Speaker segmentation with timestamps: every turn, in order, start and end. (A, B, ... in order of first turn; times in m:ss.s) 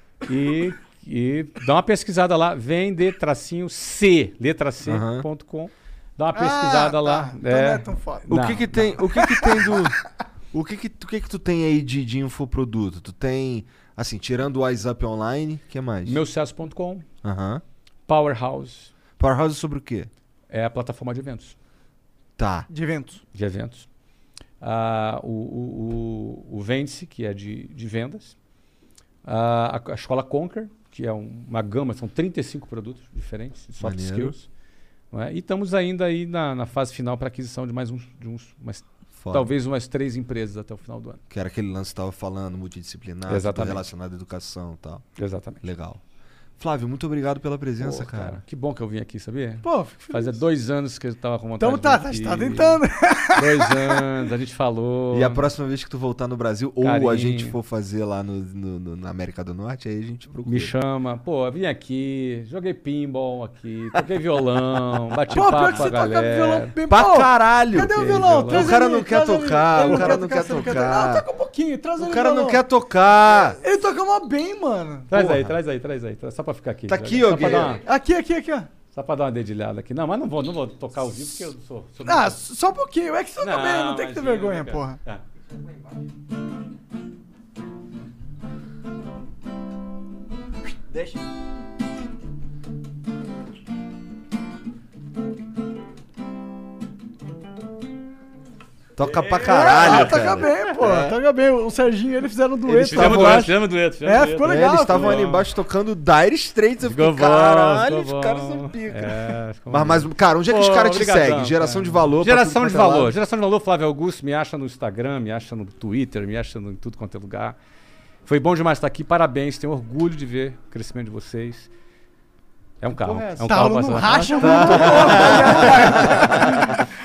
0:00.2-0:08.9 A
0:04.8-0:05.3 B
0:06.4-0:08.3 C
0:08.3-0:10.0 B
0:10.5-0:16.2 B
0:16.1-0:17.0 A
0:17.2-0:17.6 B
0:18.1-0:18.9 A
0:19.2-0:20.1 B
0:20.5-0:21.6 A
0:22.4-0:22.7 B
0:22.7-0:23.2 C
0:23.3-0:23.9 A
0:24.6-0:28.4 A
0:29.2-0:34.5 A
0:33.8-0:34.4 B
0:35.1-0:41.2 A
0:39.2-0:39.5 B
0:41.3-0:45.1 B
0:43.3-0:43.9 A
0:45.2-0:45.6 A
0:45.6-0:46.0 B
0:46.6-0:48.4 B
0:47.8-0:55.5 A
0:49.6-0:50.4 C
0:51.6-0:54.0 C
0:55.1-1:00.7 B
0:56.8-0:57.6 A
1:00.5-1:06.7 A
1:05.3-1:05.9 B
1:05.3-1:12.6 C
1:06.9-1:11.2 B
1:07.9-1:08.7 A
1:09.8-1:10.4 A
1:12.0-1:13.6 B
1:13.6-1:15.1 C
1:15.1-1:15.6 B
1:15.1-1:17.8 A
1:16.9-1:17.8 B
1:17.3-1:18.7 C
1:18.9-1:22.4 A
1:22.1-1:25.0 C
1:23.4-1:25.2 A
1:39.0-1:41.2 B
1:39.0-1:40.7 A
1:39.5-1:45.3 C
1:42.7-1:45.4 A
1:42.9-1:43.5 B
1:44.5-1:53.2 B
1:46.8-1:57.6 A
1:58.3-2:01.7 A
2:02.8-2:06.6 A
2:03.0-2:06.5 C
2:04.4-2:06.7 B